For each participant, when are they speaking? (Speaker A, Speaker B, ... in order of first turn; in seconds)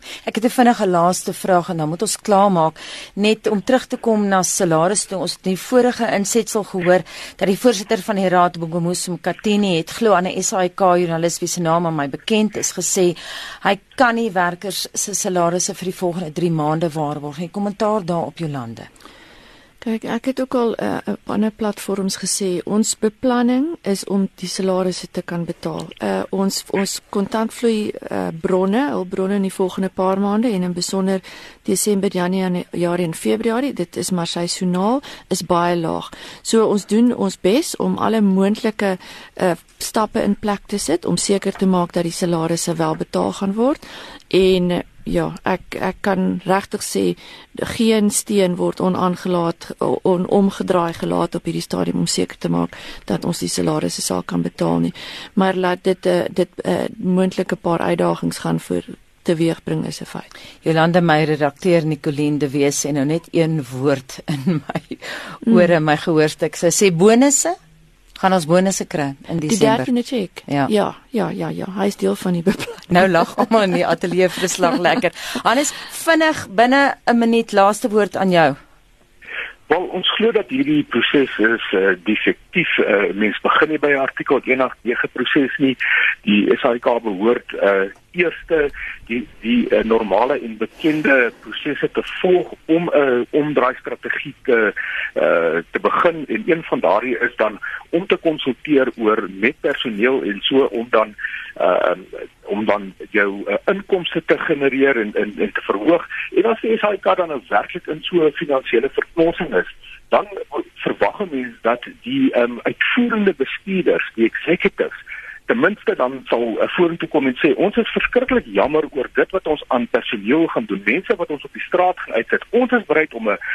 Speaker A: 0.2-18.9, 60.6-67.5, 68.2-69.9, 72.9-78.6
Speaker B: 19.8-60.3, 65.5-65.7, 69.5-73.3
Speaker C: 79.7-123.4